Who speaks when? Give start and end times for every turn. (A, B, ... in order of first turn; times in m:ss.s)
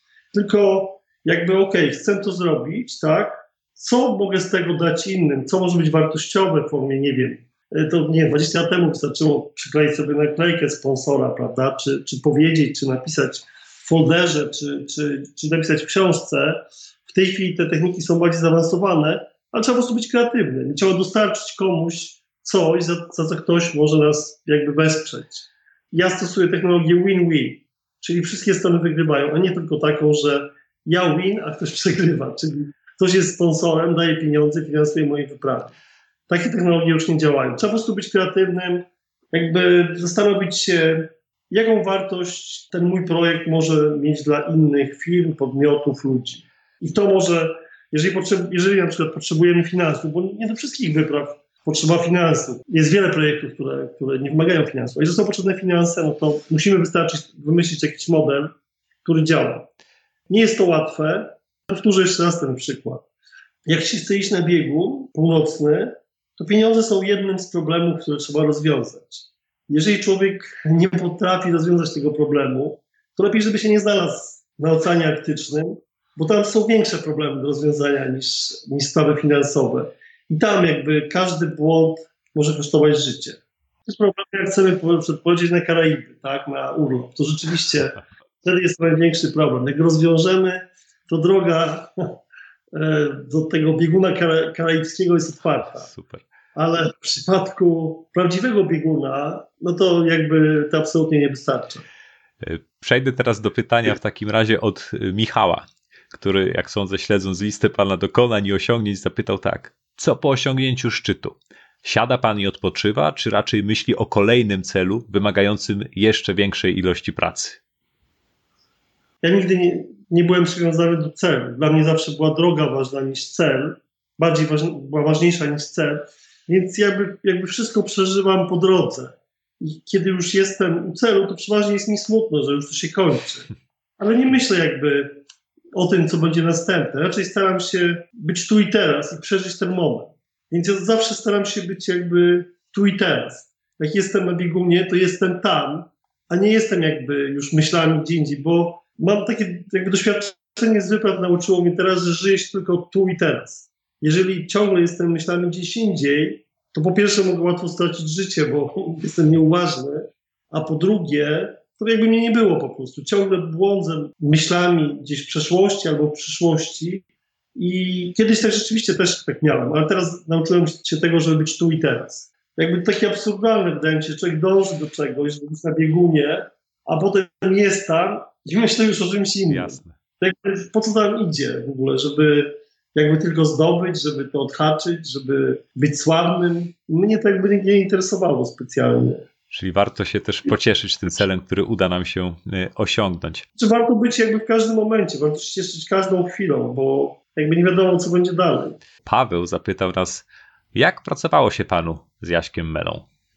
0:00.3-0:35.7 A
0:36.3-0:58.5 A
0:59.0-0:59.7 A
1:00.3-1:03.0 A
1:03.7-1:32.2 A
1:32.7-1:35.9 A
1:35.9-1:36.2 B
1:36.6-1:41.8 A
1:42.4-1:57.6 B
1:59.2-2:13.5 A
2:14.0-2:15.2 A
2:15.7-2:47.0 A
2:47.6-3:09.3 A
2:59.5-2:59.9 B
3:09.5-3:13.5 B
3:13.6-3:18.8 A
3:19.0-3:23.0 B